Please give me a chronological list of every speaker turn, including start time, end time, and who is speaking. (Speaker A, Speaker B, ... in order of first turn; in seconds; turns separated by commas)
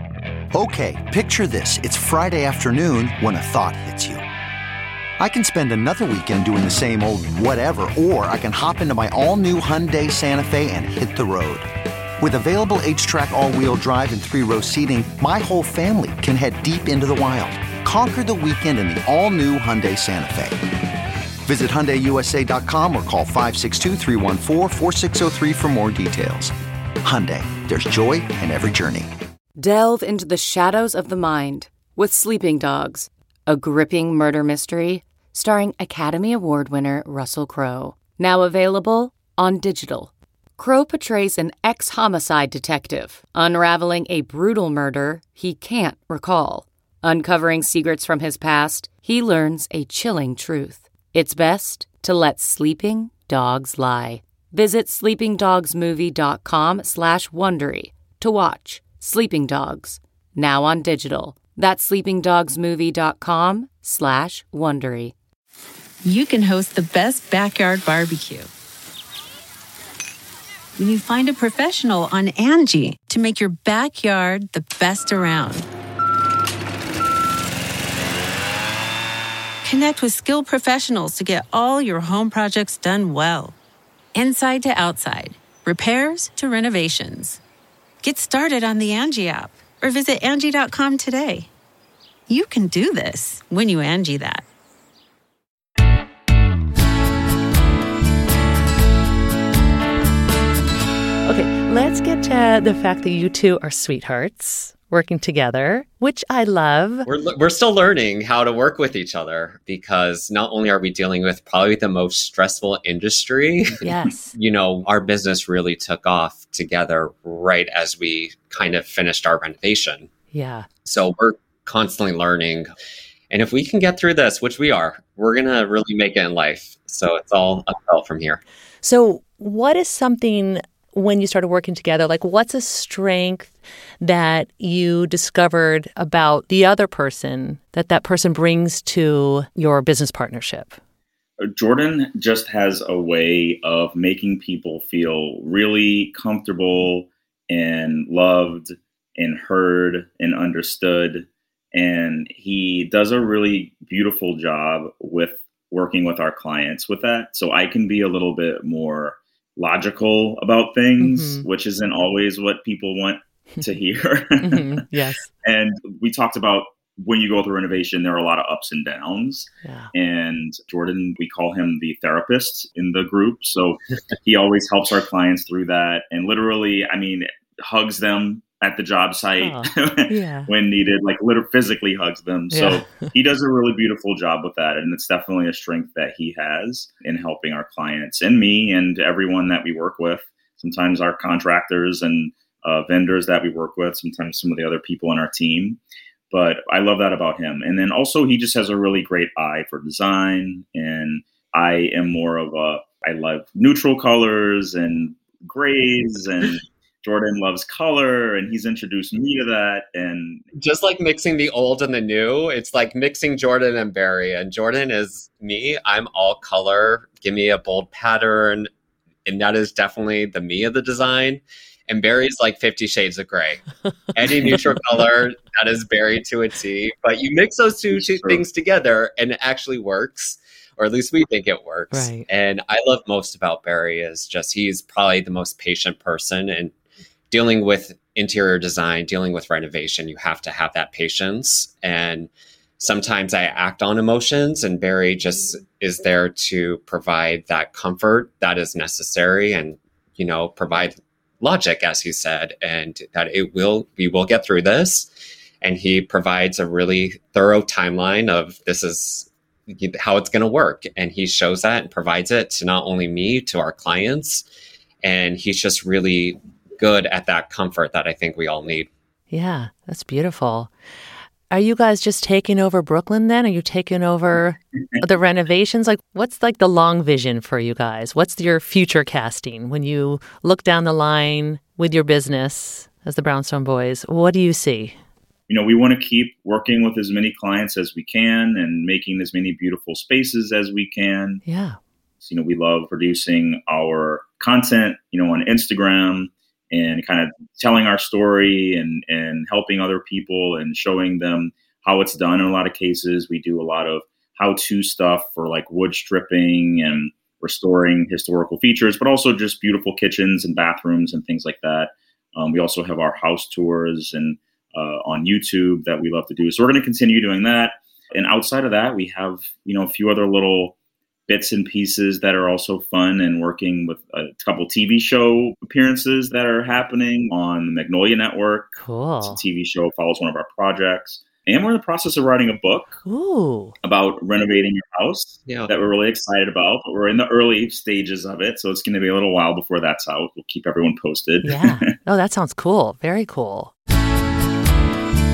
Speaker A: 0.5-4.2, Speaker A: 5.2-11.7, Speaker A: 12.2-20.6, Speaker A: 21.4-29.1, Speaker B: 29.6-65.1, Speaker C: 66.0-68.5, Speaker C: 70.8-75.7, Speaker C: 79.6-83.5, Speaker C: 84.1-87.4, Speaker C: 88.0-91.5, Speaker C: 92.3-94.4, Speaker D: 101.2-107.1, Speaker E: 107.0-120.1, Speaker D: 113.8-114.3, Speaker D: 120.3-120.7, Speaker E: 120.8-122.7, Speaker E: 123.3-128.4, Speaker D: 128.8-140.8, Speaker F: 141.4-164.7, Speaker D: 161.0-161.4, Speaker D: 164.4-165.3, Speaker F: 165.4-195.8, Speaker D: 169.6-169.9, Speaker D: 179.4-180.5, Speaker D: 182.5-183.1, Speaker F: 196.3-210.4, Speaker E: 210.6-218.7, Speaker E: 219.2-236.7, Speaker F: 227.9-228.4, Speaker D: 231.9-232.2, Speaker E: 237.3-255.1, Speaker E: 255.6-264.4, Speaker E: 265.0-268.9, Speaker D: 269.3-270.7, Speaker D: 271.5-284.9, Speaker F: 285.5-291.4, Speaker D: 291.4-291.8, Speaker F: 292.2-320.7, Speaker F: 321.3-333.0, Speaker D: 328.8-329.4, Speaker D: 333.0-333.8, Speaker F: 333.8-341.9, Speaker D: 341.4-343.7